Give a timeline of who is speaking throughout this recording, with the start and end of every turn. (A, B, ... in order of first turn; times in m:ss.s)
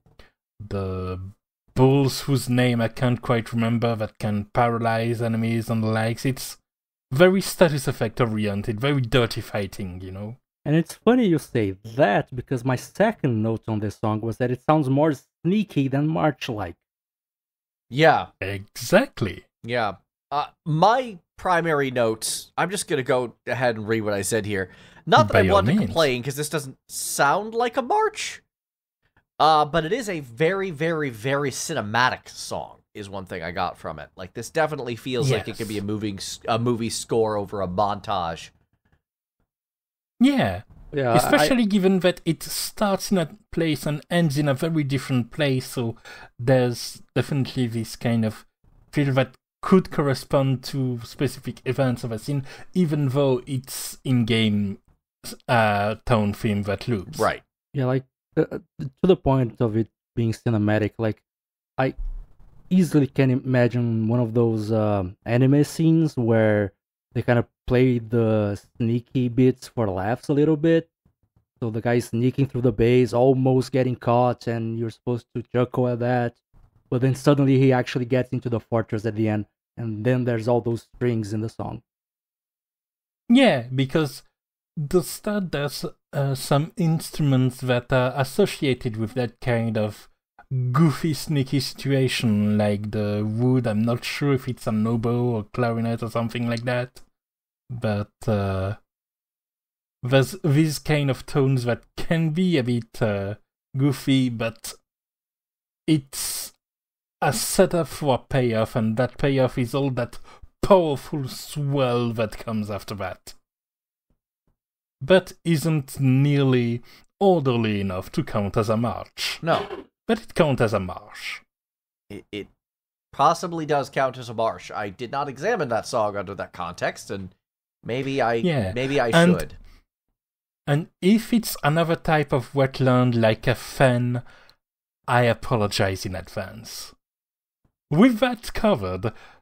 0:00.6-0:06.6 A
0:07.1-0:10.4 A
0:10.6-0:16.8 B
0:17.9-0:18.3 C
0:18.4-0:19.4 A
0:19.6-0:28.4 C
0:25.2-0:26.1 A
0:29.4-0:38.5 C
0:35.2-0:35.8 A
0:40.2-0:57.2 A
0:40.9-0:41.5 B
0:57.1-0:57.4 C
0:57.7-1:01.2 B
1:02.7-1:10.9 B
1:11.6-1:16.4 B
1:16.9-1:21.8 B
1:23.3-1:24.2 A
1:24.8-1:37.0 A
1:37.7-1:38.8 A
1:40.0-1:44.8 A
1:45.9-1:46.5 A
1:47.2-1:53.4 A
1:55.0-2:01.4 A
1:59.4-1:59.8 C
2:02.1-2:02.5 C
2:03.1-2:07.3 C
2:07.8-2:09.6 C
2:08.4-2:09.4 A
2:10.7-2:14.2 A
2:15.1-2:16.9 A
2:17.9-2:19.1 A